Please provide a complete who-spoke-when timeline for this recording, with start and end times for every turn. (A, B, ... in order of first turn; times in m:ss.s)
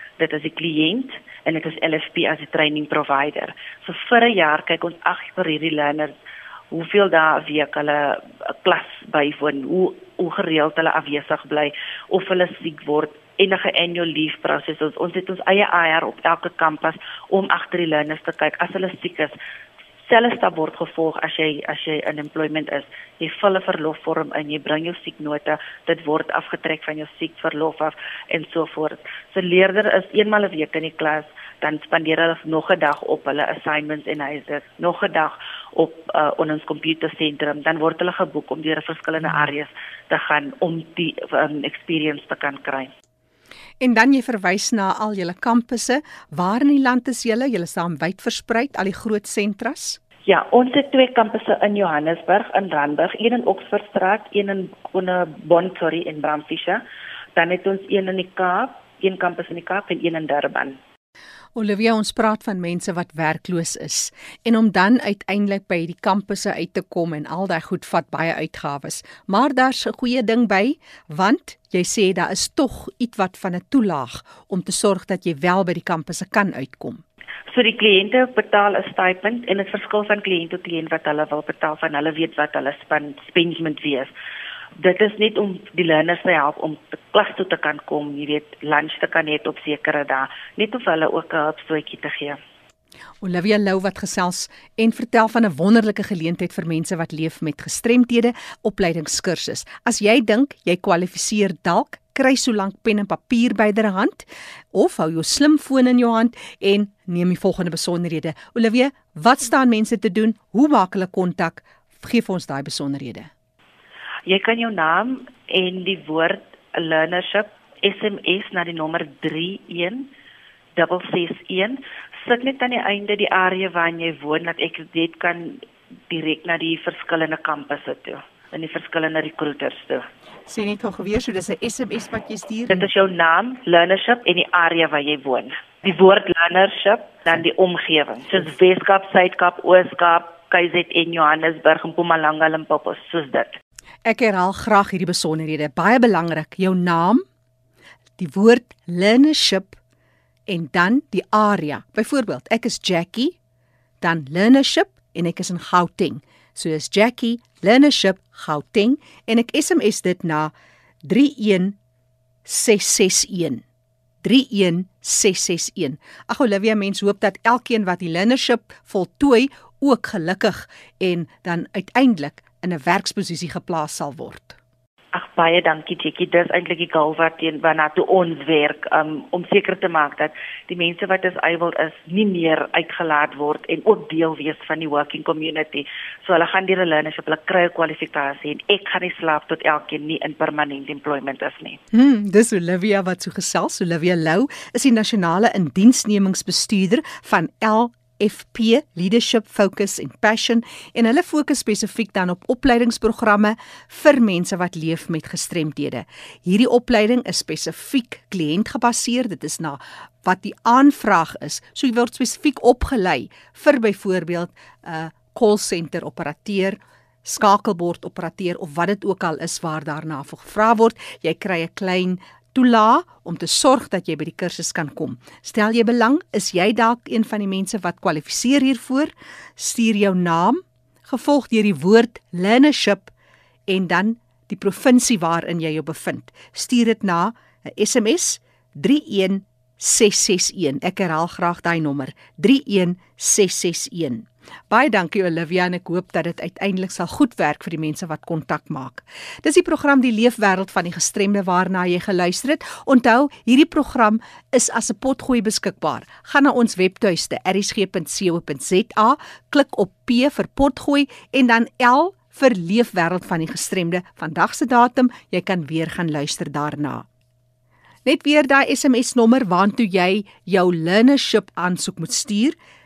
0:00.2-0:06.2 A
0:06.7-0:19.4 A
0:20.1-0:42.9 A
0:43.8-0:50.0 B
0:50.3-0:56.8 A
0:57.4-1:00.8 A
1:01.6-1:17.0 B
1:17.5-1:24.1 A
1:24.8-1:32.4 A
1:33.2-1:53.3 B
1:54.3-2:00.1 A
2:00.8-2:10.1 A
2:10.5-2:12.9 B
2:12.7-2:23.6 A
2:24.0-2:27.2 B
2:28.2-2:29.8 B
2:30.5-2:33.4 B
2:34.0-2:40.5 B
2:41.0-2:41.8 B
2:42.4-2:43.6 B
2:44.2-2:54.6 B
2:55.1-3:11.8 A
3:11.9-3:53.1 B
3:53.7-4:27.1 B
4:28.0-4:32.6 B